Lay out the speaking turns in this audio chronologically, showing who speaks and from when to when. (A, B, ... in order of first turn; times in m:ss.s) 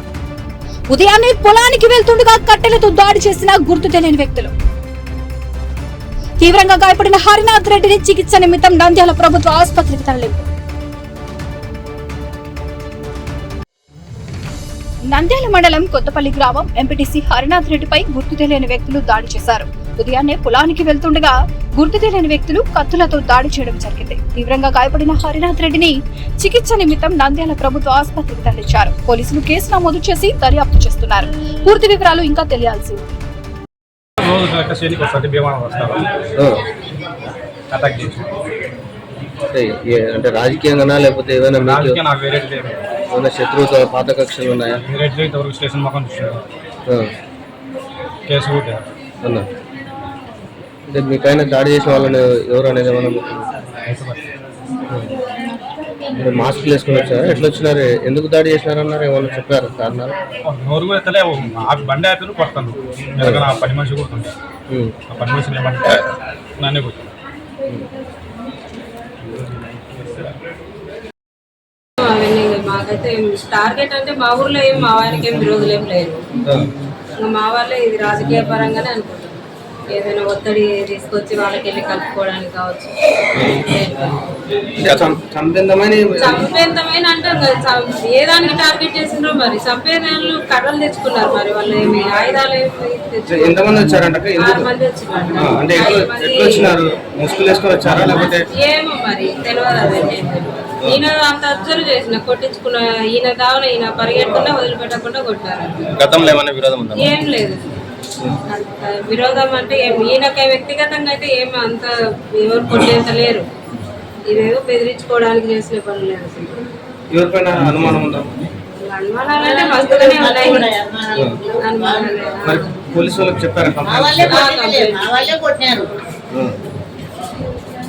0:00.9-0:04.5 A
0:06.4-0:10.5 A
0:15.1-0:33.1 A
0:34.2-0:36.0 B
0:36.4-0:36.6 C
0:37.7-0:38.3 B
0:39.5-0:42.0 C
0:41.6-0:42.8 B
0:43.1-0:44.8 C
0:44.9-0:46.4 B
0:48.2-0:48.8 B
0:49.2-0:49.5 C
0:50.9-0:53.4 C
0:53.8-0:54.2 B
0:56.2-1:00.1 C
1:00.4-1:04.3 B
1:03.2-1:03.4 C
1:04.7-1:05.0 C
1:05.1-1:07.1 B
1:12.0-1:16.2 D
1:16.4-1:16.7 C
1:17.2-1:24.2 D
1:24.8-1:26.4 C
1:26.2-1:33.8 D
1:33.3-1:34.7 C
1:34.4-1:36.8 D
1:35.4-1:38.4 C
1:38.1-1:46.0 D
1:46.0-1:47.2 C
1:46.9-1:47.8 D
1:48.5-1:53.5 D
1:54.3-1:56.6 D
1:57.1-1:58.4 C
1:58.8-2:00.8 D
1:59.7-2:01.5 E
2:01.6-2:02.9 D
2:02.4-2:04.4 C
2:03.8-2:05.9 E
2:04.3-2:05.4 D